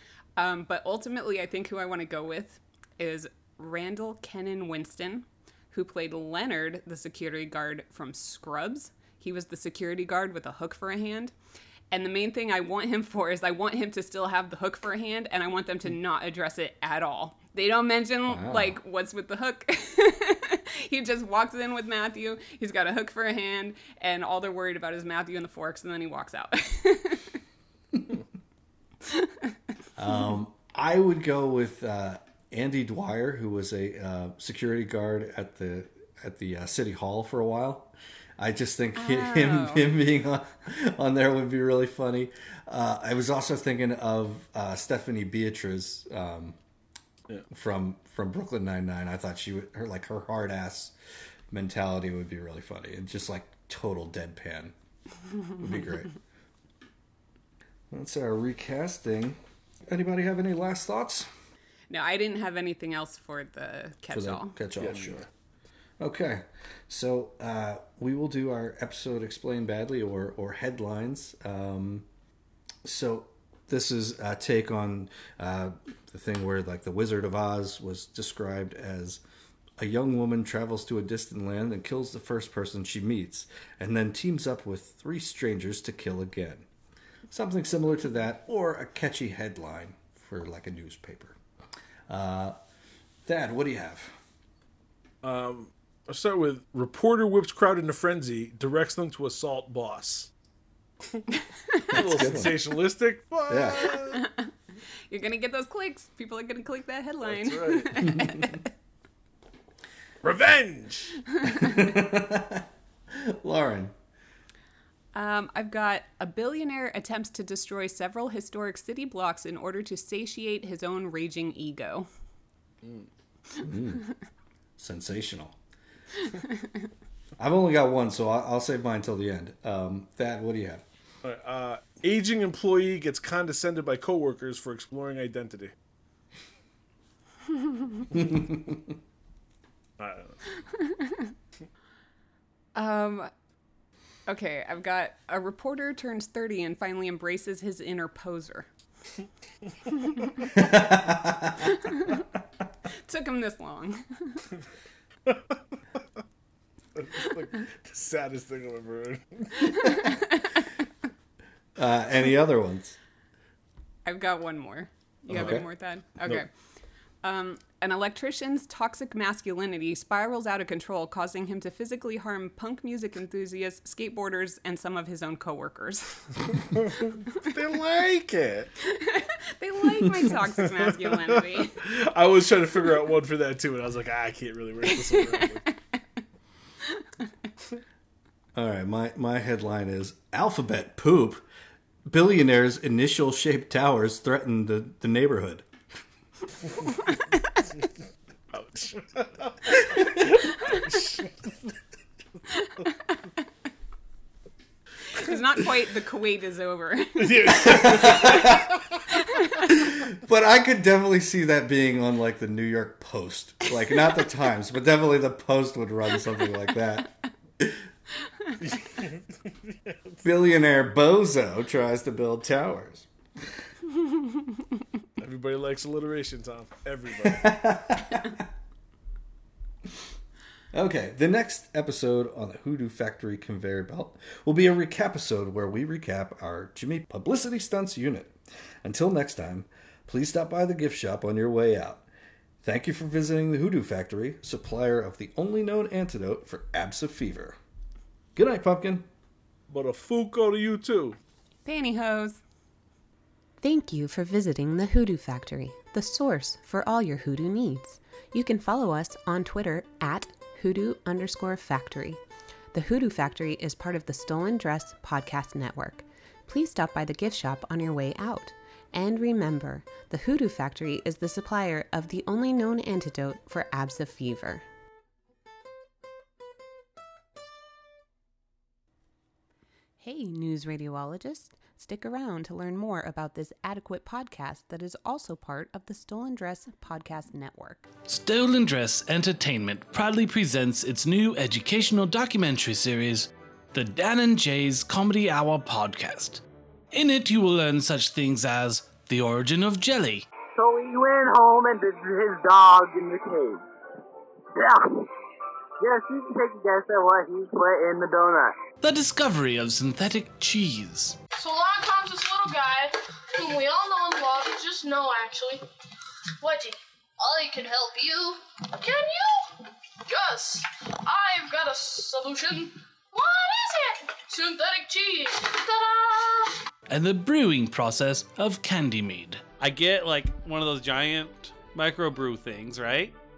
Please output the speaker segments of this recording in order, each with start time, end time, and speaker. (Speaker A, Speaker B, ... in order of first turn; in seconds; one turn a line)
Speaker A: 0.4-11.3
Speaker A: 11.9-27.3
Speaker B: 18.3-18.8
Speaker B: 30.0-46.6
Speaker A: 39.0-39.9
Speaker B: 47.5-50.9
Speaker B: 51.5-54.7
Speaker B: 55.6-56.1
Speaker B: 57.9-61.3
Speaker A: 61.9-64.6
Speaker B: 64.1-65.3
Speaker C: 64.8-65.3
Speaker B: 66.0-72.1
Speaker B: 72.8-79.2
Speaker B: 79.8-86.7
Speaker B: 87.3-91.4
Speaker B: 92.1-92.6
Speaker B: 93.3-94.2
Speaker C: 95.2-100.3
Speaker C: 101.9-104.2
Speaker B: 101.9-102.6
Speaker B: 103.5-103.9
Speaker A: 104.1-104.4
Speaker A: 105.1-108.7
Speaker C: 107.2-107.9
Speaker B: 108.1-108.4
Speaker C: 110.2-111.2
Speaker A: 111.4-111.7
Speaker B: 111.5-113.9
Speaker A: 115.1-122.1
Speaker C: 122.8-123.1
Speaker B: 123.6-124.0
Speaker B: 124.8-125.6
Speaker B: 127.4-130.8
Speaker C: 131.2-135.7
Speaker B: 138.2-138.8
Speaker C: 140.0-140.4
Speaker A: 140.8-141.3
Speaker A: 142.8-143.3
Speaker A: 144.3-148.7
Speaker B: 150.5-151.6
Speaker A: 151.6-152.2
Speaker A: 153.1-154.4
Speaker C: 155.3-155.6
Speaker C: 157.0-160.0
Speaker A: 159.6-160.5
Speaker B: 161.8-163.0
Speaker A: 164.1-166.5
Speaker C: 165.3-165.6
Speaker B: 165.3-165.7
Speaker A: 167.2-176.4
Speaker C: 176.7-178.7
Speaker A: 178.9-181.8
Speaker C: 180.0-185.7
Speaker A: 185.1-185.5
Speaker B: 188.6-191.4
Speaker B: 192.1-195.7
Speaker C: 198.5-201.7
Speaker B: 199.8-200.2
Speaker A: 202.5-202.9
Speaker A: 205.1-209.7
Speaker C: 207.2-208.8
Speaker B: 207.6-208.7
Speaker B: 209.7-217.8
Speaker C: 218.6-220.2
Speaker B: 220.2-223.1
Speaker C: 225.2-227.5
Speaker B: 227.2-228.4
Speaker B: 230.7-242.1
Speaker B: 242.6-247.6
Speaker B: 248.4-249.1
Speaker C: 249.7-251.2
Speaker A: 251.7-252.4
Speaker D: 253.6-262.2
Speaker D: 262.7-274.6
Speaker D: 280.0-287.9
Speaker E: 288.1-300.3
Speaker F: 300.6-303.6
Speaker F: 304.6-305.1
Speaker F: 305.8-308.6
Speaker E: 308.8-311.2
Speaker G: 311.4-315.7
Speaker G: 316.4-326.6
Speaker E: 326.9-329.5
Speaker H: 329.6-333.2